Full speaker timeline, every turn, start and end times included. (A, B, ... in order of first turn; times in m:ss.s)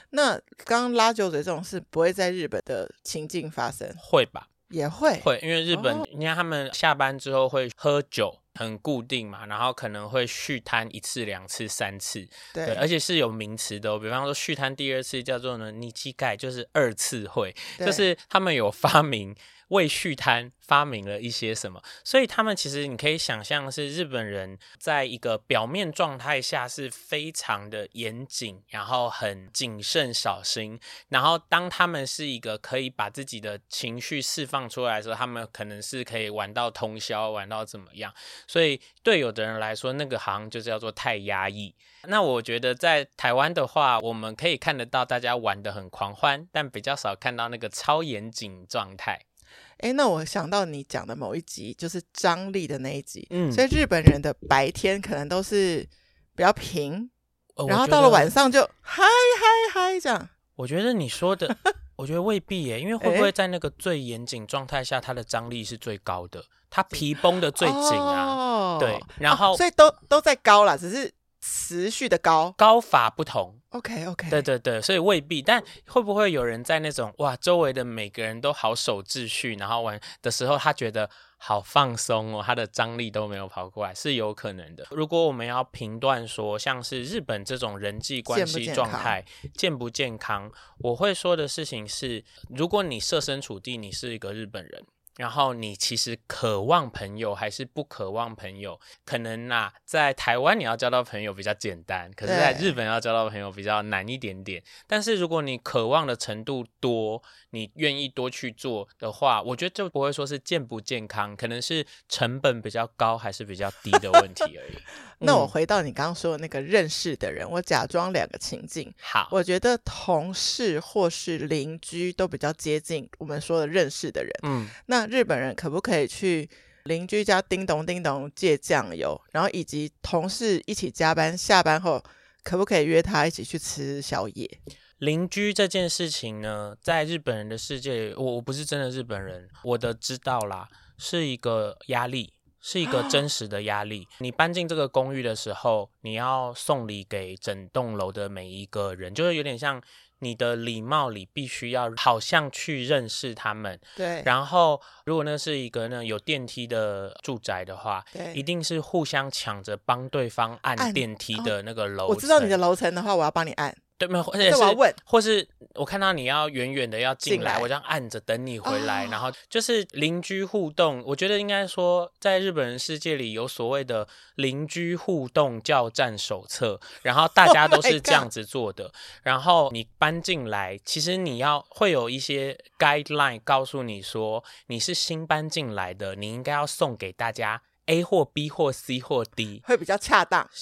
0:00.1-0:04.0 A
0:04.0-0:04.5 B
0:04.7-0:06.1 A
0:05.2-0:49.2 B
0:12.5-0:12.8 A
0:49.8-0:57.1 A
0:53.3-0:53.6 B
0:57.6-0:58.3 B
0:57.7-1:00.3 A
1:00.6-1:09.6 B
1:03.0-1:03.3 A
1:07.6-1:12.6 A
1:12.6-1:13.6 B
1:13.7-1:14.4 A
1:14.3-1:55.5 B
1:28.3-1:29.2 A
1:42.2-1:42.7 A
1:55.2-2:14.6 A
1:59.0-1:59.3 B
2:04.4-2:04.8 B
2:15.0-2:42.6 B
2:22.8-2:23.2 A
2:34.0-2:34.3 A
2:38.1-2:38.4 A
2:40.8-2:41.5 A
2:42.1-2:43.8 A
2:44.0-3:09.6 B
2:44.5-2:45.0 A
2:47.3-2:47.7 A
2:48.6-2:49.2 A
2:57.4-2:58.3 A
3:09.6-3:10.5 A